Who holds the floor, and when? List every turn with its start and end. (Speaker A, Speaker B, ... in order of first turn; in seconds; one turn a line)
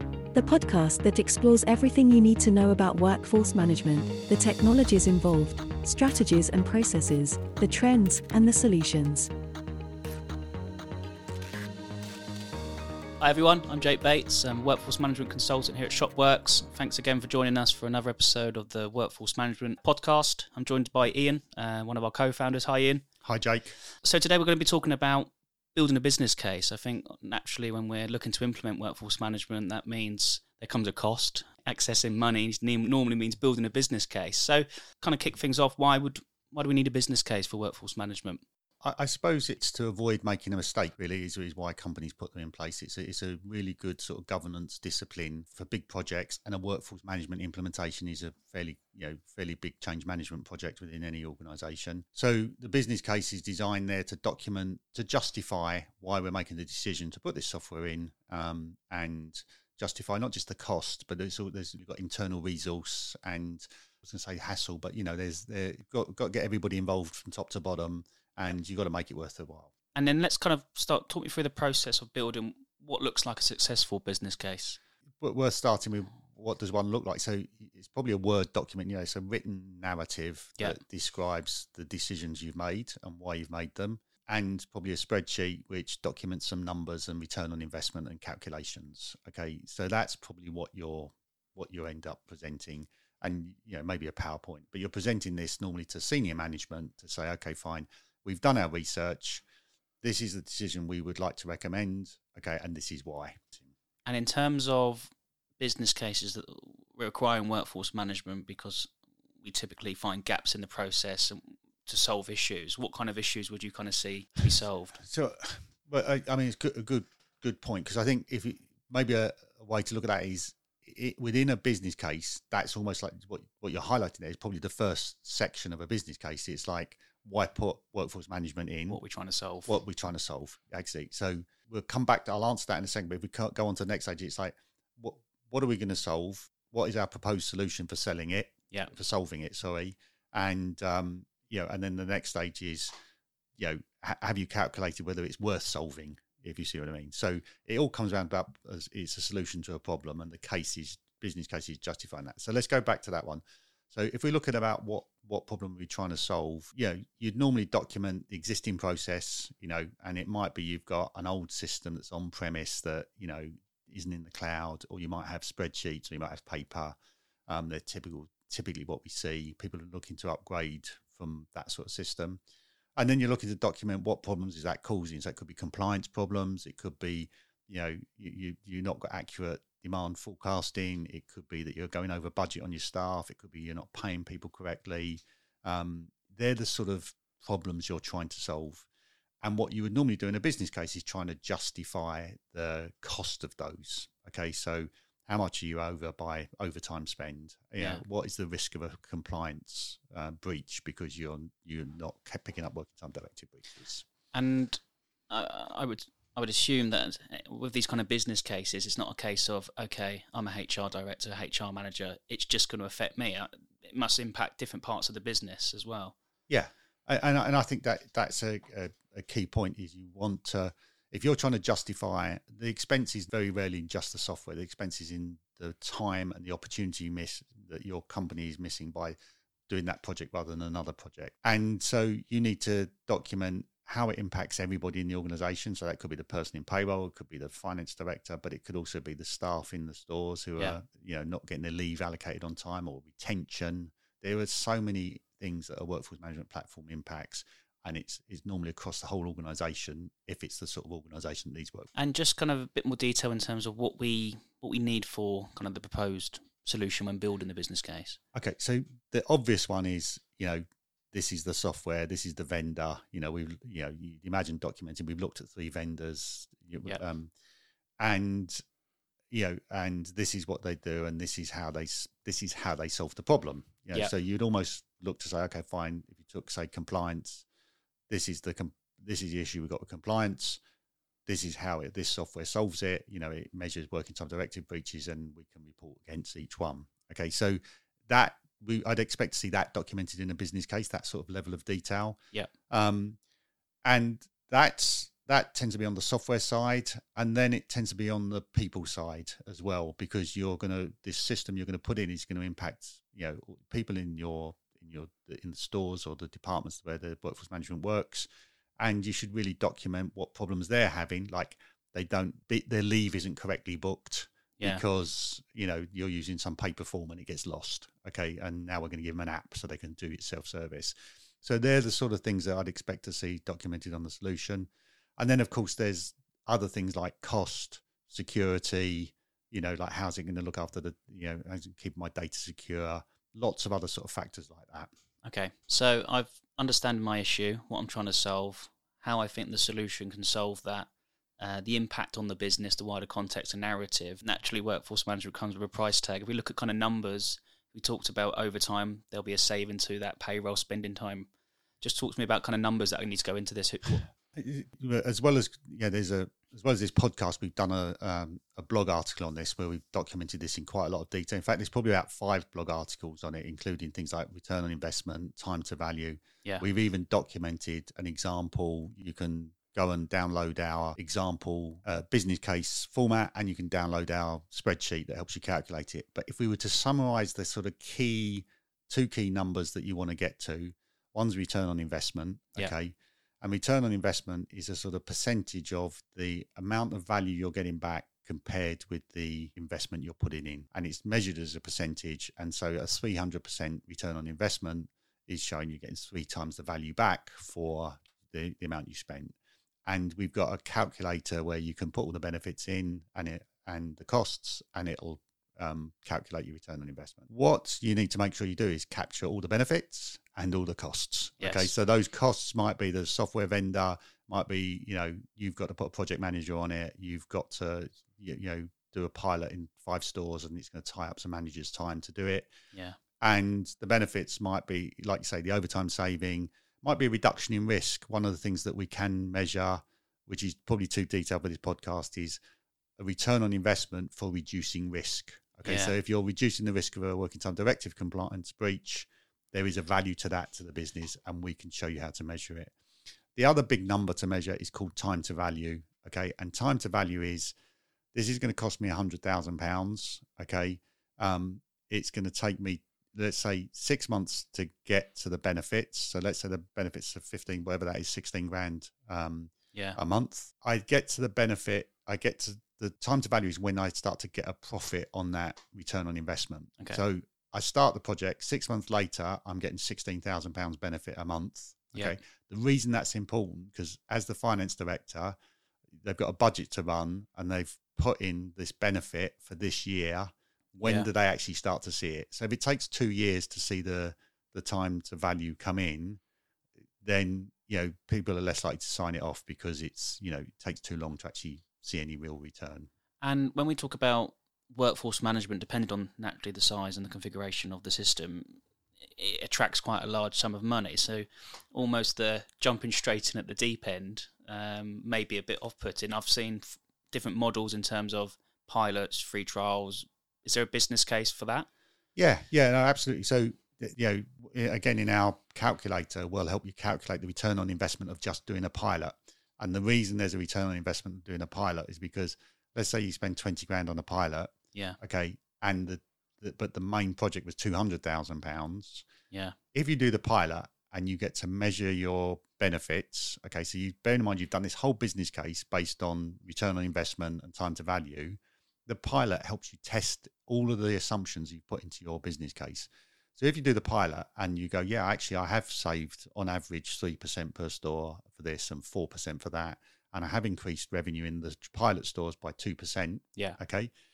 Speaker A: 0.3-9.3
Speaker B: 13.2-23.0
Speaker C: 23.2-23.8
Speaker B: 24.0-38.4
Speaker C: 38.8-69.7
Speaker B: 70.0-74.8
Speaker C: 75.2-99.4
Speaker C: 100.0-103.7
Speaker B: 104.1-108.9
Speaker B: 109.4-115.0
Speaker C: 115.0-129.0
Speaker B: 128.9-129.8
Speaker C: 129.7-142.9
Speaker C: 143.6-167.0
Speaker C: 167.5-172.4
Speaker C: 173.0-188.9
Speaker C: 189.4-204.1
Speaker B: 204.3-216.2
Speaker C: 216.5-229.2
Speaker C: 229.7-251.9
Speaker B: 251.9-258.2
Speaker C: 258.3-267.3
Speaker C: 268.0-268.6
Speaker C: 269.3-277.4
Speaker C: 278.1-280.6
Speaker C: 281.3-292.2
Speaker C: 292.7-293.2
Speaker C: 293.9-308.3
Speaker C: 308.8-334.9
Speaker B: 314.6-314.8
Speaker B: 335.2-351.3
Speaker B: 351.8-354.1
Speaker C: 354.3-422.5
Speaker B: 411.4-411.7
Speaker B: 422.7-423.0
Speaker C: 423.2-432.4
Speaker C: 433.0-442.7
Speaker B: 435.6-435.9
Speaker C: 443.4-447.5
Speaker C: 448.1-475.4
Speaker B: 459.7-460.0
Speaker C: 476.0-486.2
Speaker C: 487.0-492.9
Speaker B: 493.2-498.6
Speaker B: 499.1-511.7
Speaker C: 512.2-529.1
Speaker C: 529.7-553.9